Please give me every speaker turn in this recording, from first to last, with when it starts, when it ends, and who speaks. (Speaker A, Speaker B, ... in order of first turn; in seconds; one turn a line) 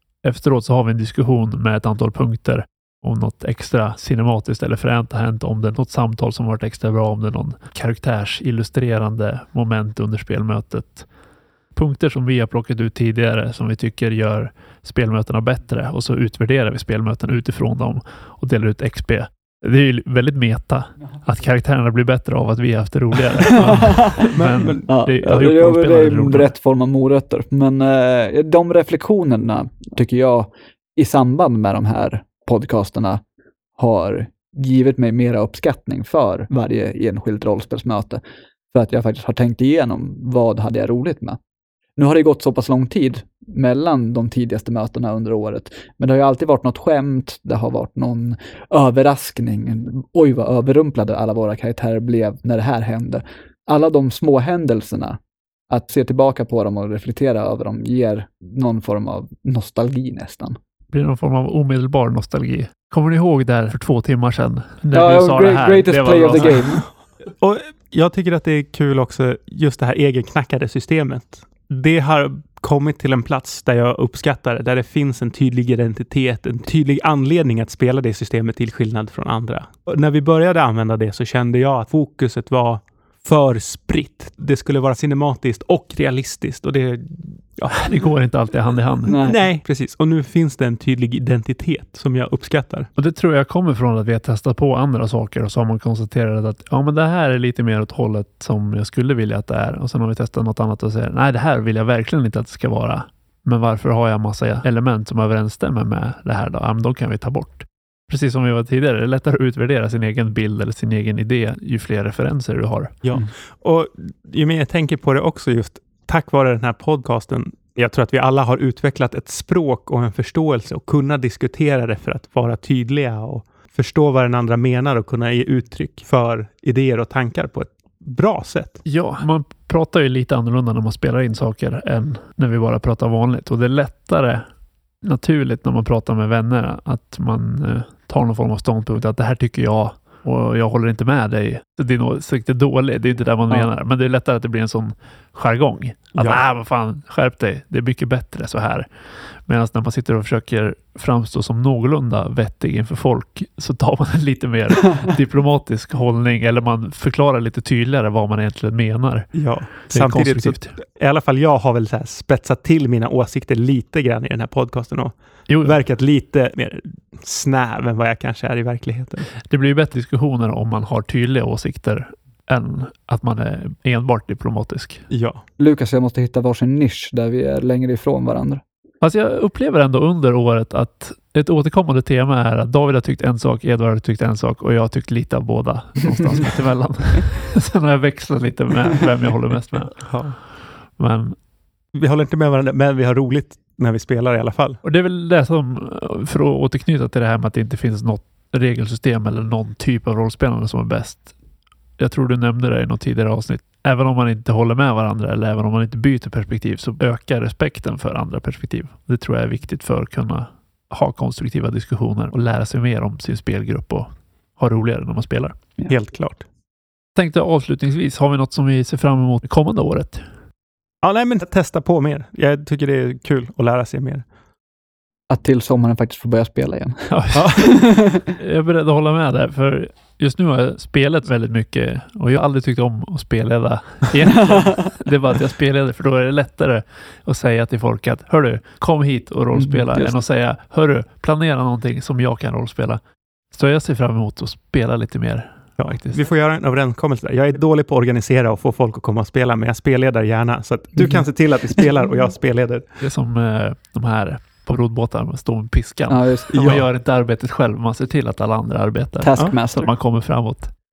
Speaker A: 0.2-11.1
Speaker A: 11.8-26.5
Speaker B: 23.6-24.1
Speaker C: 24.2-24.9
Speaker B: 24.9-33.2
Speaker B: 33.8-38.2
Speaker B: 38.7-41.4
Speaker B: 42.0-55.2
Speaker B: 55.7-60.6
Speaker A: 60.9-66.6
Speaker B: 64.9-66.9
Speaker C: 67.4-87.8
Speaker A: 87.7-89.2
Speaker B: 89.1-89.4
Speaker C: 89.2-92.9
Speaker A: 93.0-113.0
Speaker C: 113.0-128.9
Speaker A: 128.8-134.4
Speaker A: 135.0-148.9
Speaker A: 149.4-160.8
Speaker C: 159.3-169.3
Speaker A: 165.5-165.8
Speaker A: 169.4-175.1
Speaker C: 175.1-175.4
Speaker B: 175.6-178.6
Speaker A: 179.0-190.3
Speaker C: 190.1-190.4
Speaker A: 191.0-191.4
Speaker C: 191.9-194.8
Speaker A: 194.8-201.3
Speaker A: 202.0-215.6
Speaker C: 215.9-216.4
Speaker A: 217.2-220.2
Speaker C: 221.0-224.2
Speaker B: 225.3-228.3
Speaker A: 227.1-227.8
Speaker C: 227.3-227.6
Speaker A: 228.3-243.0
Speaker B: 234.5-234.8
Speaker B: 239.5-240.2
Speaker A: 243.5-246.2
Speaker C: 245.8-252.9
Speaker A: 253.0-260.7
Speaker B: 256.1-256.5
Speaker C: 256.5-256.8
Speaker B: 259.2-259.9